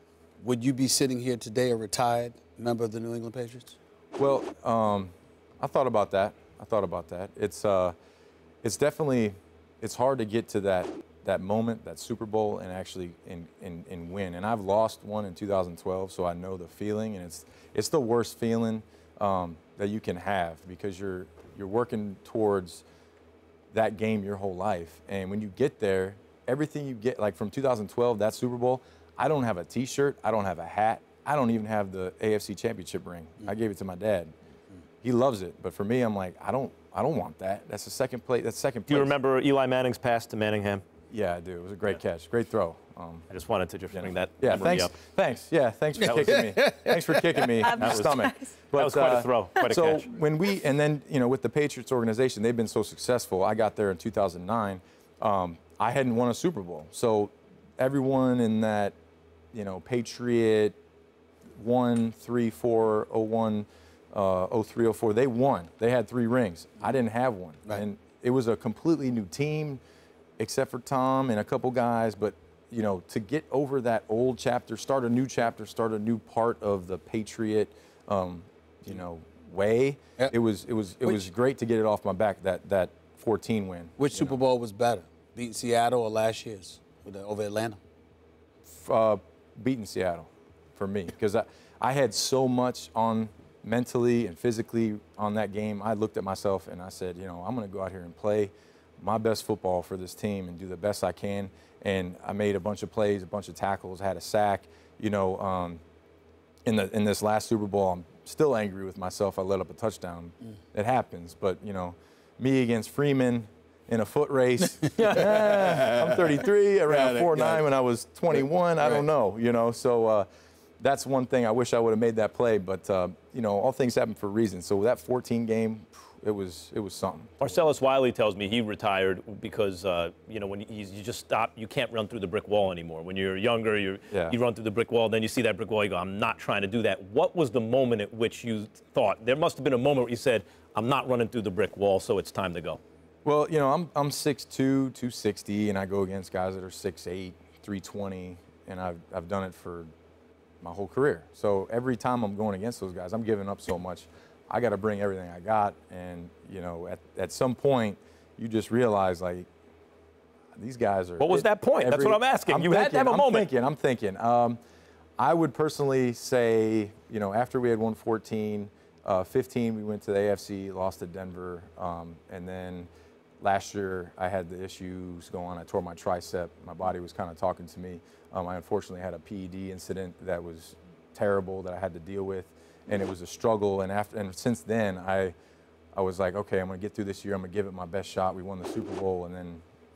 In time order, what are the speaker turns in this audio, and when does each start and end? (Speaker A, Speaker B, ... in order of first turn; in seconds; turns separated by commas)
Speaker A: 0.4-3.8, Speaker B: 4.2-8.0, Speaker B: 8.6-22.9, Speaker B: 23.7-34.3, Speaker B: 35.0-39.1, Speaker C: 38.9-40.8, Speaker B: 41.1-43.3, Speaker C: 43.3-45.0, Speaker B: 43.9-59.0, Speaker C: 46.0-46.6, Speaker C: 47.8-48.2, Speaker C: 48.8-50.1, Speaker B: 59.5-60.8, Speaker B: 61.6-69.8, Speaker B: 70.4-84.4, Speaker A: 84.0-87.8, Speaker B: 88.7-105.8, Speaker B: 106.7-120.3, Speaker A: 115.0-116.1, Speaker A: 116.9-117.6, Speaker B: 120.8-127.4, Speaker C: 127.4-142.8, Speaker B: 134.1-134.4, Speaker B: 143.2-149.9, Speaker B: 150.6-159.5, Speaker B: 160.6-164.6, Speaker C: 161.2-163.5, Speaker B: 165.2-172.9, Speaker B: 173.4-185.3, Speaker B: 185.9-189.6